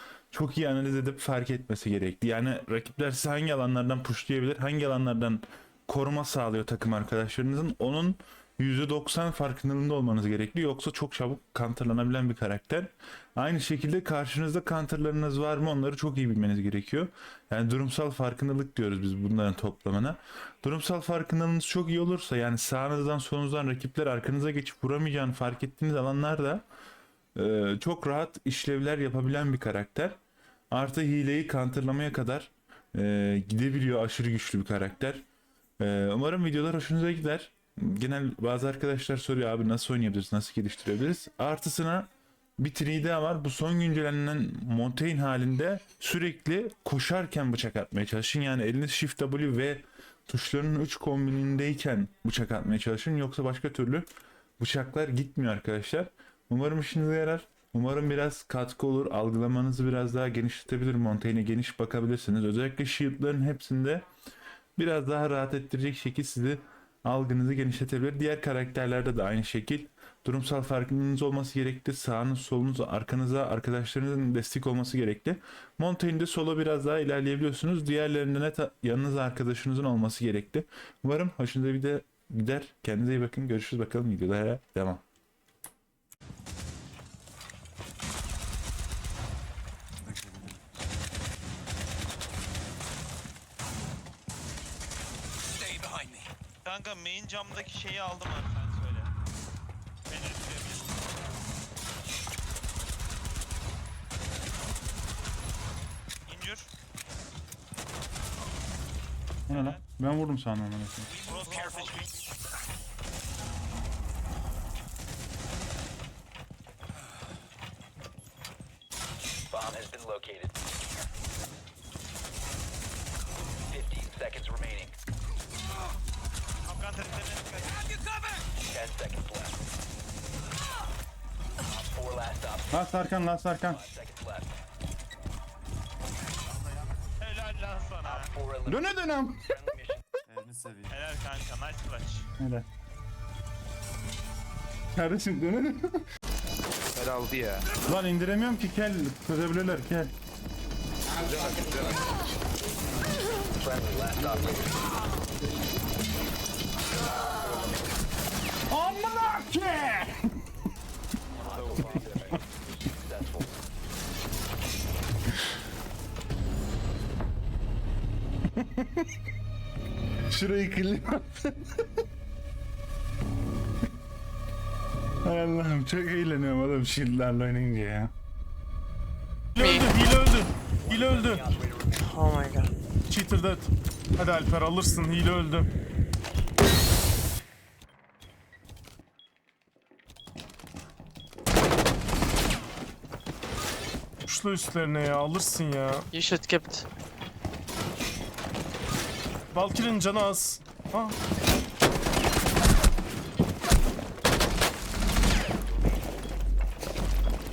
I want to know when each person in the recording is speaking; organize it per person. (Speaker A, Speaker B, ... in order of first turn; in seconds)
Speaker A: 0.3-26.6, 27.3-30.2, 30.7-35.2, 35.8-54.0, 54.6-64.1, 64.8-85.0, 109.5-111.1, 132.7-133.8, 138.7-139.4, 142.4-142.7, 144.9-145.9, 147.8-150.1, 158.7-160.2, 168.6-169.0, 170.3-171.5, 175.2-178.1
Speaker B: 96.6-99.1, 100.1-101.0, 106.3-106.7, 109.5-109.8, 111.2-112.1, 126.7-127.8, 137.2-138.3, 140.9-142.3
Speaker C: 119.5-120.5, 123.7-125.0, 128.6-129.6, 131.7-132.7, 133.7-134.5, 138.0-138.8, 139.5-140.0, 153.5-154.8, 161.4-163.5, 180.9-182.2, 205.5-205.9
Speaker D: 146.9-147.7, 151.1-152.2, 161.4-162.3
Speaker E: 179.6-181.4, 183.1-185.7, 194.2-196.1, 199.5-201.1
Speaker F: 179.6-179.9, 182.0-182.7, 196.1-196.8